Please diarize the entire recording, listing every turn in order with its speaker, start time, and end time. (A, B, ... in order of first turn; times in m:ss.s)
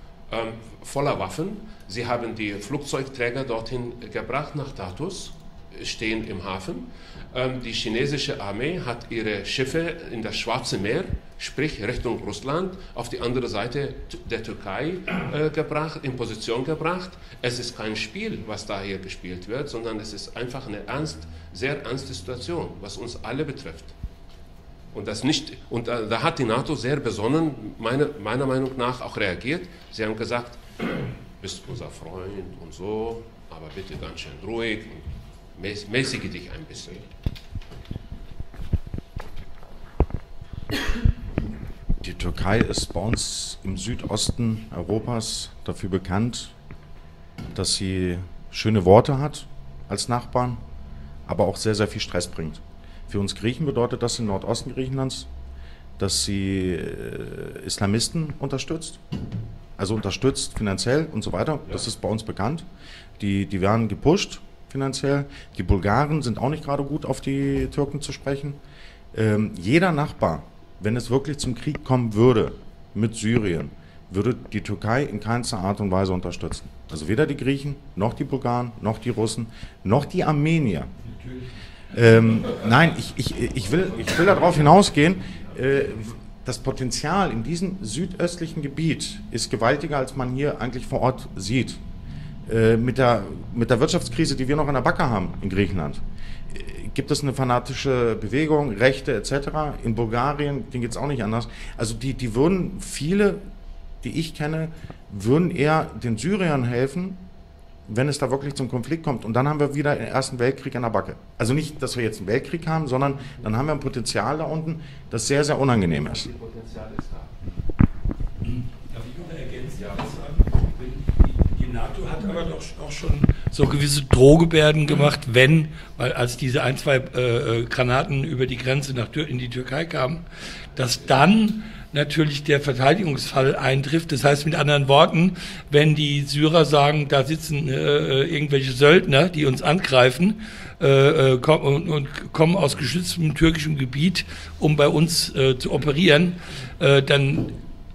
0:00.3-0:23.9 A
0:24.9-0:30.6 A
0:31.4-0:37.0 A
0:42.0-0:46.5 B
0:47.5-0:50.6 B
0:51.2-0:55.3 B
0:56.0-0:59.0 B
0:59.8-1:02.6 B
1:03.2-1:08.6 B
1:09.1-1:20.9 B
1:21.0-1:21.5 C
1:21.9-1:31.8 B
1:32.4-1:43.4 B
1:44.0-1:47.2 B
1:47.9-1:56.3 B
1:56.0-1:57.3 A
1:58.4-2:10.2 C
2:10.8-2:27.6 C